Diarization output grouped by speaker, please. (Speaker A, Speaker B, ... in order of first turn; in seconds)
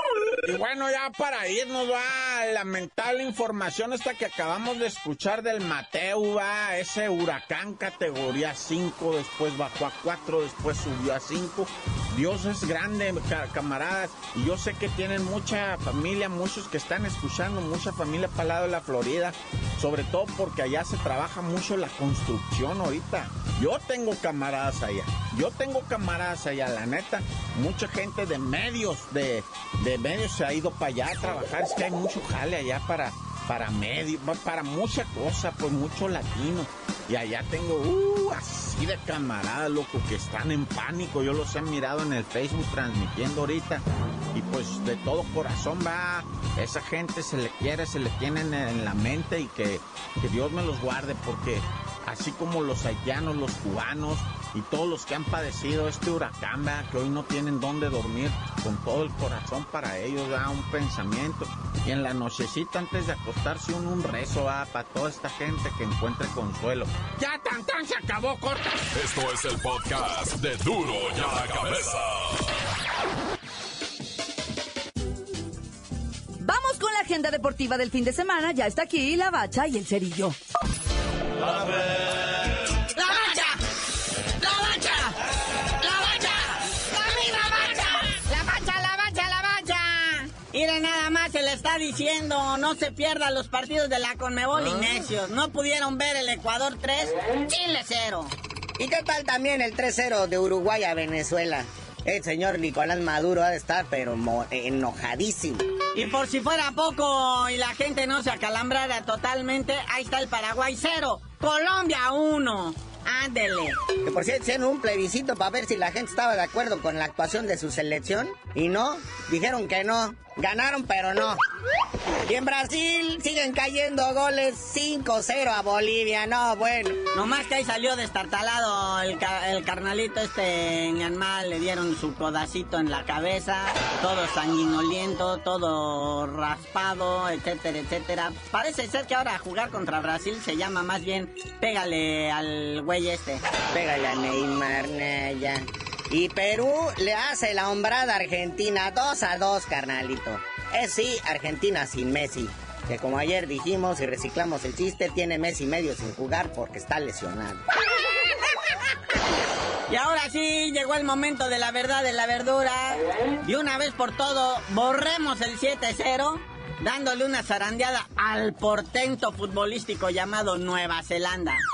Speaker A: 0.3-68.7
Speaker B: 68.9-72.5
Speaker C: 76.4-80.4
Speaker D: 82.9-83.6, 84.4-85.2, 85.8-98.3, 105.9-113.8, 127.1-143.4, 159.9-171.6
Speaker E: 98.8-105.6, 114.0-121.4, 122.2-127.0, 143.7-157.6